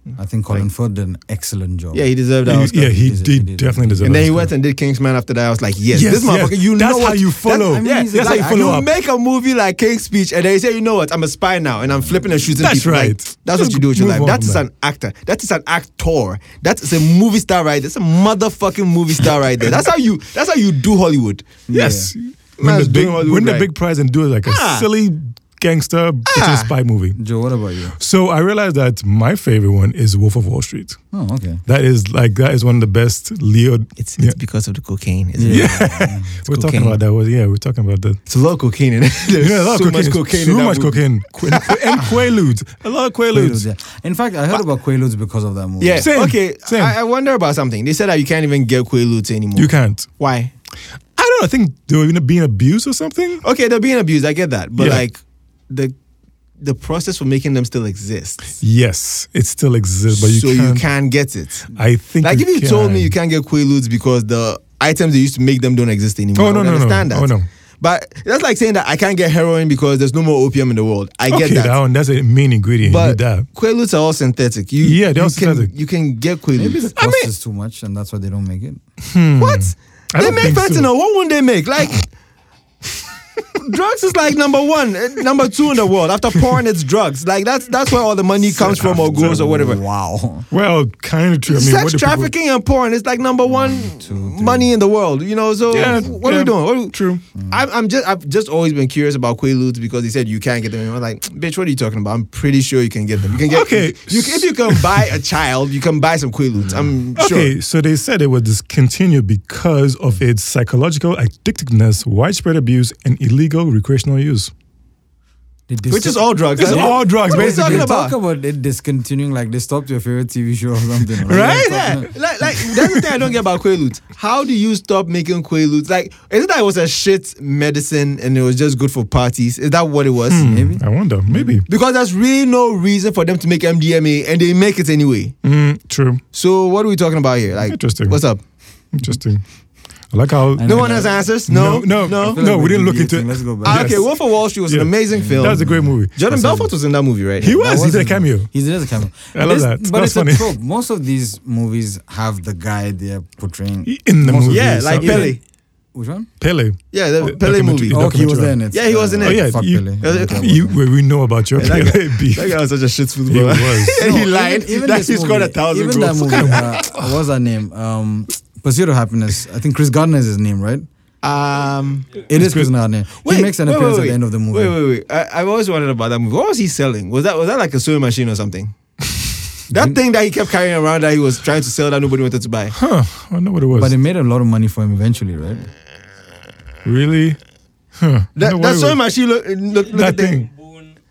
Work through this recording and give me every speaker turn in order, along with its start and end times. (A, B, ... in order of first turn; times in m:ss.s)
0:00.2-0:04.3 A
0:01.9-0:02.7 B
0:02.4-0:04.5 C
0:04.0-0:21.5 B
0:05.9-0:08.9 C
0:07.7-0:08.8 A
0:12.0-0:12.3 A
0:12.6-0:14.6 C
0:21.7-0:22.1 A
0:21.7-0:27.2 C
0:22.6-0:23.7 B
0:24.4-0:24.9 B
0:26.3-0:26.7 B
0:27.1-0:27.9 A
0:28.0-0:31.0 C
0:31.1-0:31.6 A
0:31.7-0:34.4 C
0:34.0-0:37.0 B
0:35.4-0:36.3 A
0:35.5-0:38.2 C
0:38.3-0:42.0 B
0:39.4-0:43.6 C
0:43.3-0:46.1 A
0:45.8-0:50.5 B
0:46.0-0:46.9 C
0:49.6-0:50.1 C
0:51.2-0:53.4 C
0:53.4-0:55.9 B
0:54.8-0:55.0 C
0:56.6-0:58.6 B
0:58.6-1:00.8 C
1:00.1-1:01.7 B
1:01.7-1:03.1 C
1:02.2-1:11.8 B
1:06.4-1:07.4 C
1:11.3-1:13.5 C
1:12.8-1:17.2 B
1:14.8-1:15.7 C
1:16.6-1:18.8 A
1:17.0-1:17.3 C
1:19.0-1:20.9 C
1:19.4-1:22.1 B
1:23.6-1:29.8 B
1:28.5-1:29.4 C
1:28.6-1:30.5 A
1:30.5-1:32.3 C
1:31.5-1:47.5 B
1:33.4-1:34.7 A
1:35.7-1:37.2 C
1:35.7-1:36.1 A
1:43.4-1:45.0 C
1:47.2-1:54.5 C
1:55.7-2:02.1 A
1:55.9-1:58.2 B
1:56.6-1:57.9 C
2:01.2-2:10.4 B
2:01.3-2:01.8 C
2:02.6-2:03.1 C
2:10.3-2:11.6 C
2:10.4-2:11.5 A
2:11.6-2:15.3 B
2:15.4-2:16.2 C
2:16.3-2:18.4 B
2:17.7-2:18.2 C
2:18.9-2:19.4 C
2:20.1-2:26.7 C
2:20.5-2:21.2 A
2:20.6-2:22.4 B
2:22.1-2:24.0 A
2:23.6-2:27.6 B
2:25.1-2:25.9 A
2:27.4-2:28.5 C
2:27.5-2:33.9 A
2:29.3-2:30.5 C
2:33.8-2:35.3 C
2:34.2-2:35.4 B
2:34.6-2:35.4 A
2:35.9-2:36.3 A
2:36.4-2:38.6 C
2:36.9-2:38.1 B
2:37.9-2:40.8 A
2:38.7-2:40.6 B
2:39.2-2:42.6 C
2:41.6-2:46.8 B
2:43.3-2:44.0 C
2:44.0-2:50.8 A
2:46.6-2:47.0 C
2:51.2-2:52.2 B
2:52.3-2:54.7 A
2:52.3-2:52.7 C
2:53.2-2:58.7 B
2:59.7-3:00.0 A
2:59.7-3:02.7 B
3:02.7-3:03.9 C
3:03.7-3:05.7 A
3:06.8-3:07.4 C
3:08.0-3:09.0 C
3:08.3-3:10.4 B
3:09.9-3:10.5 C